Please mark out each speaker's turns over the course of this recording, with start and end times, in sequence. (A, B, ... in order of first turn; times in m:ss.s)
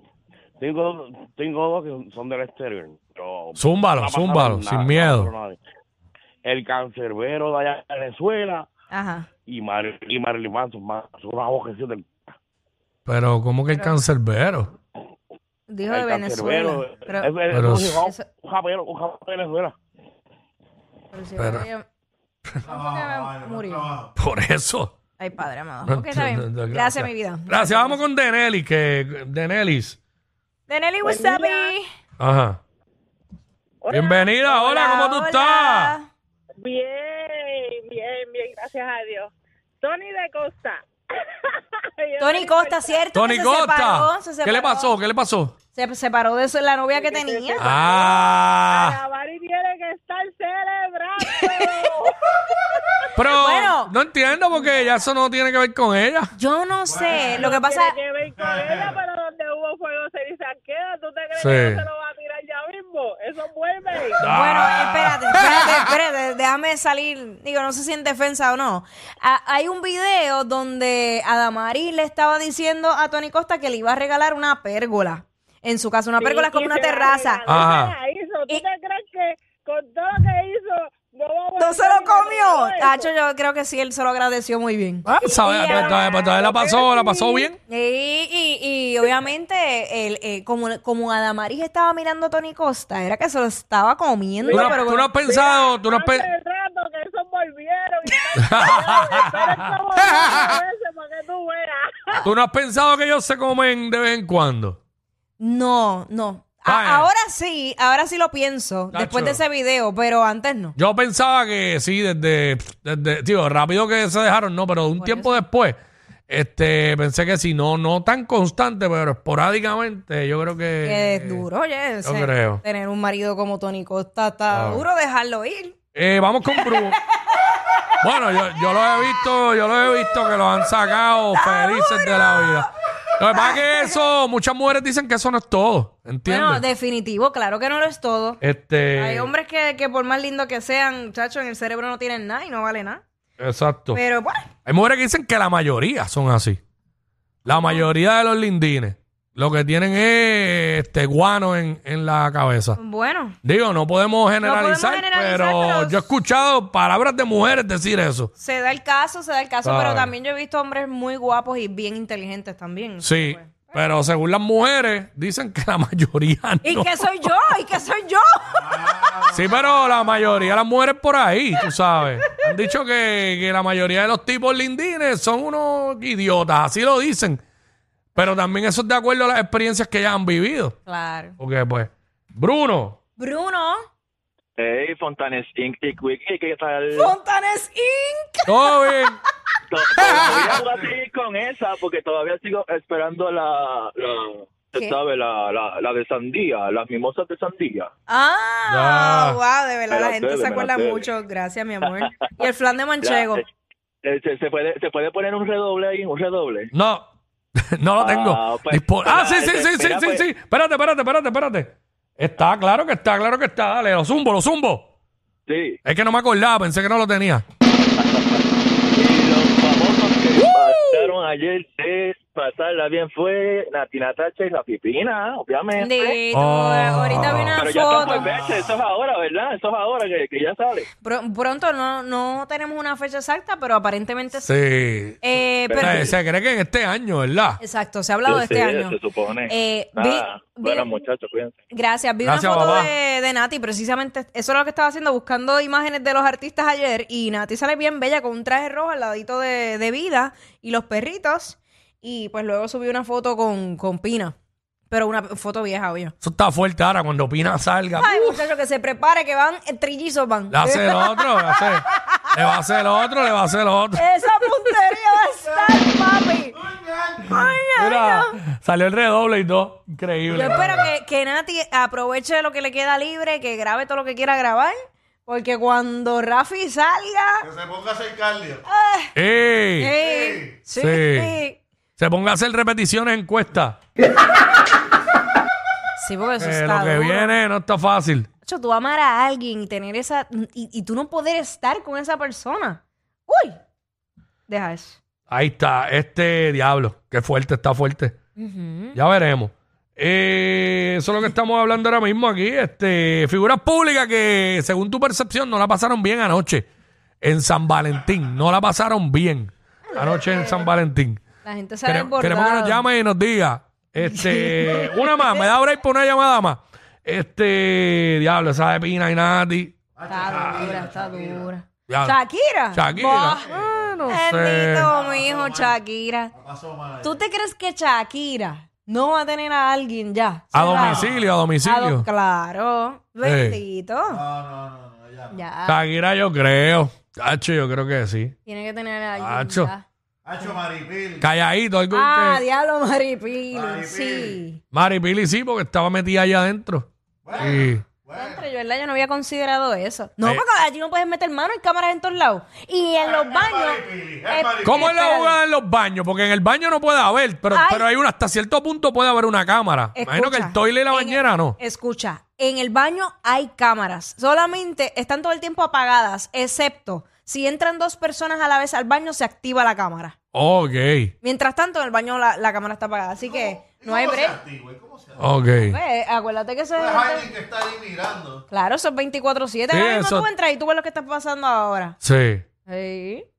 0:00.6-0:05.6 A
0:03.6-0:05.3 B
0:06.4-0:08.6 A
0:08.9-0:09.3 C
0:09.4-0:12.1 A
0:13.0-0:14.7 B
0:15.7-0:17.3 C
0:15.9-0:19.7 A
0:17.5-0:18.0 B
0:21.1-0:21.8 C
0:21.4-0:21.7 B
0:22.6-0:23.9 C
0:22.7-0:24.1 D
0:24.2-0:24.9 B
0:25.2-0:28.0 C
0:25.9-0:30.0 B
0:30.7-0:31.8 C
0:31.0-0:31.7 E
0:32.2-0:32.6 B
0:33.8-0:34.5 E
0:33.9-0:36.0 B
0:34.5-0:36.1 C
0:36.6-0:40.8 E
0:41.3-0:43.1 E
0:42.2-0:44.9 C
0:43.1-0:45.6 B
0:45.7-0:48.1 C
0:47.0-0:52.8 E
0:47.6-0:49.0 B
0:51.2-0:51.9 C
0:53.1-0:56.3 B
0:53.3-0:53.9 C
0:56.4-0:58.0 C
0:56.9-0:57.5 D
0:57.1-1:04.3 E
0:58.5-0:59.0 D
1:01.4-1:01.8 B
1:04.2-1:05.7 B
1:04.2-1:17.4 C
1:16.2-1:23.1 E
1:17.4-1:17.9 B
1:21.6-1:26.4 C
1:25.0-1:27.6 B
1:25.6-1:27.5 E
1:27.7-1:35.1 C
1:34.4-1:42.2 E
1:34.5-1:36.3 B
1:38.0-1:39.0 C
1:38.4-1:40.2 B
1:42.2-1:44.8 B
1:45.4-1:50.7 C
1:46.6-1:47.1 B
1:48.9-1:49.4 B
1:50.8-1:55.8 B
1:55.0-1:55.4 C
1:56.3-2:01.5 B
2:00.8-2:05.8 C
2:02.0-2:02.6 B
2:04.5-2:04.8 B
2:05.9-2:07.0 B
2:06.5-2:07.9 C
2:08.0-2:16.6 B
2:09.8-2:10.2 C
2:11.3-2:12.7 C
2:13.3-2:14.0 C
2:16.3-2:18.4 C
2:18.4-2:19.3 B
2:18.9-2:23.0 C
2:23.4-2:24.0 B
2:23.9-2:24.5 C
2:24.6-2:26.6 B
2:27.4-2:32.8 B
2:27.5-2:27.8 C
2:32.8-2:33.4 C
2:33.4-2:38.3 B
2:34.4-2:36.1 C
2:38.4-2:43.8 C
2:39.6-2:40.1 B
2:43.0-2:47.2 B
2:46.6-2:49.3 C
2:48.6-2:50.0 D
2:49.3-2:57.4 B
2:58.2-3:00.8 B
3:00.9-3:01.4 C
3:01.4-3:03.0 B
3:03.2-3:03.8 C
3:04.6-3:07.1 F
3:06.9-3:09.0 C
3:08.4-3:09.2 B
3:09.7-3:17.9 F
3:18.1-3:23.4 C
3:18.7-3:19.4 B
3:19.9-3:21.1 F
3:23.0-3:23.4 F
3:24.0-3:26.7 F
3:26.7-3:27.0 B
3:27.6-3:34.9 B
3:28.0-3:30.2 F
3:35.5-3:35.8 F
3:35.8-3:37.4 B
3:38.0-3:38.4 F
3:38.9-3:46.2 F
3:45.8-3:48.3 C
3:46.3-3:47.8 B
3:47.6-3:50.9 F
3:51.0-3:54.5 C
3:54.4-3:55.2 B
3:55.2-3:56.1 C
3:55.7-3:56.1 F
3:55.8-3:57.6 B
3:57.6-3:59.0 C
3:58.2-4:01.6 F
3:59.5-4:01.0 C
4:01.7-4:14.3 C
4:02.2-4:02.9 B
4:14.9-4:16.1 C
4:16.2-4:18.4 B
4:18.0-4:22.6 C
4:20.5-4:24.1 B
4:24.0-4:26.6 C
4:26.7-4:27.3 D
4:27.2-4:28.3 C
4:27.8-4:30.9 B
4:30.3-4:34.8 C
4:35.3-4:37.5 C
4:37.4-4:38.6 D
4:38.7-4:39.1 C
4:39.1-4:40.0 B
4:39.8-4:41.6 C
4:40.0-4:40.6 D
4:40.7-4:41.4 B
4:42.0-4:43.8 B
4:46.0-4:47.4 C
4:46.4-4:48.3 B
4:48.4-4:53.6 C
4:54.5-4:55.0 C
4:55.3-4:58.2 B
4:58.4-4:59.0 C
4:58.9-5:06.7 B
5:07.2-5:11.2 B
5:09.9-5:10.6 C
5:11.4-5:12.8 C
5:11.8-5:19.7 B
5:14.1-5:15.4 C
5:20.0-5:21.5 D
5:20.1-5:26.3 C
5:20.3-5:20.6 B
5:21.9-5:22.2 B
5:22.7-5:24.9 B
5:23.3-5:24.1 D
5:24.9-5:25.8 D
5:26.4-5:27.2 D
5:27.0-5:31.0 C
5:30.5-5:32.1 B
5:30.8-5:31.3 D
5:31.6-5:34.2 C
5:33.2-5:33.6 B
5:34.1-5:35.4 D
5:35.3-5:35.8 C
5:35.6-5:38.3 B
5:38.4-5:39.8 C
5:39.1-5:39.7 B
5:40.2-5:41.2 D
5:41.2-5:42.4 B
5:41.9-5:44.6 C
5:43.5-5:44.4 D
5:44.7-5:47.8 B
5:47.2-5:48.4 D
5:48.1-5:55.4 C
5:53.0-5:54.9 D
5:54.6-6:01.6 B
5:57.5-5:57.8 C
5:59.9-6:10.2 C
6:10.3-6:11.1 B
6:11.2-6:14.4 C
6:13.2-6:15.3 D
6:15.2-6:15.8 B
6:15.6-6:17.3 C
6:16.8-6:18.4 D
6:18.5-6:22.0 C
6:19.7-6:20.3 B
6:22.0-6:22.4 B
6:22.7-6:23.3 C